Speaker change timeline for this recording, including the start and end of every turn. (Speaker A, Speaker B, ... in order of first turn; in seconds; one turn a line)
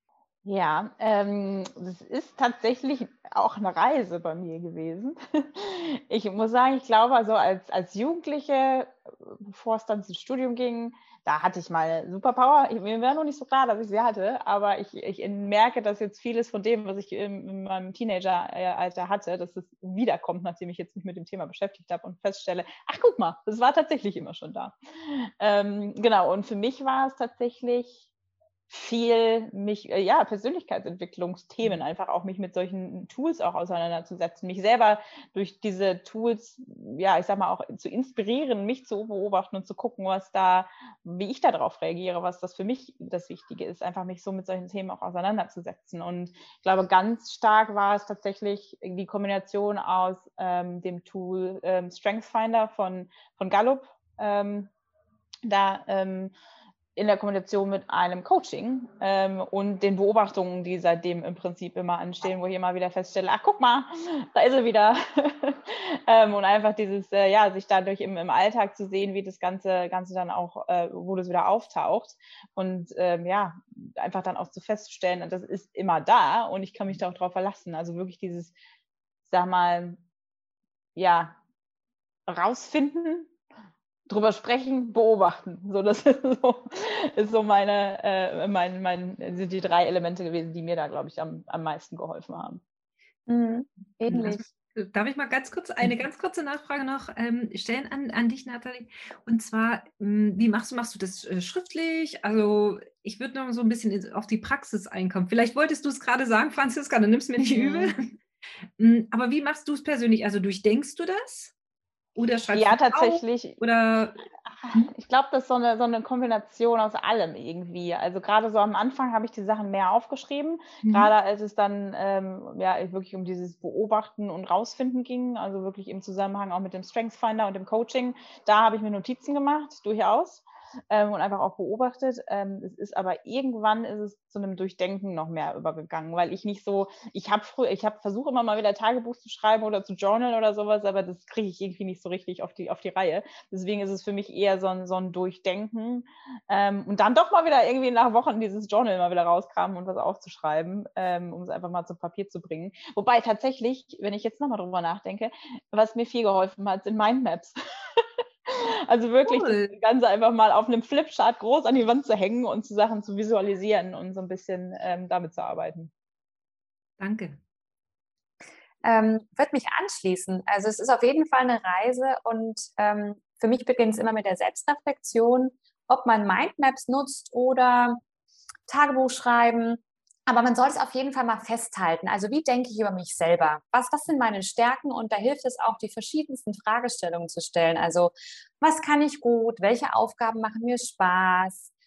Speaker A: 0.4-28.1
Speaker A: 28.7-54.7
Speaker A: 55.4-56.3
Speaker A: 57.0-78.5
Speaker A: 79.3-80.0
Speaker A: 81.0-81.4
Speaker A: 82.3-83.3
Speaker A: 84.1-92.6
Speaker B: 93.3-94.4
Speaker C: 94.1-108.2
Speaker A: 107.4-108.0
Speaker C: 108.8-111.5
Speaker C: 112.2-114.9
Speaker A: 112.5-113.6
Speaker A: 114.6-165.9
Speaker C: 120.8-121.1
Speaker C: 159.2-159.7
Speaker C: 167.0-167.4
Speaker B: 168.8-178.0
Speaker B: 178.7-191.7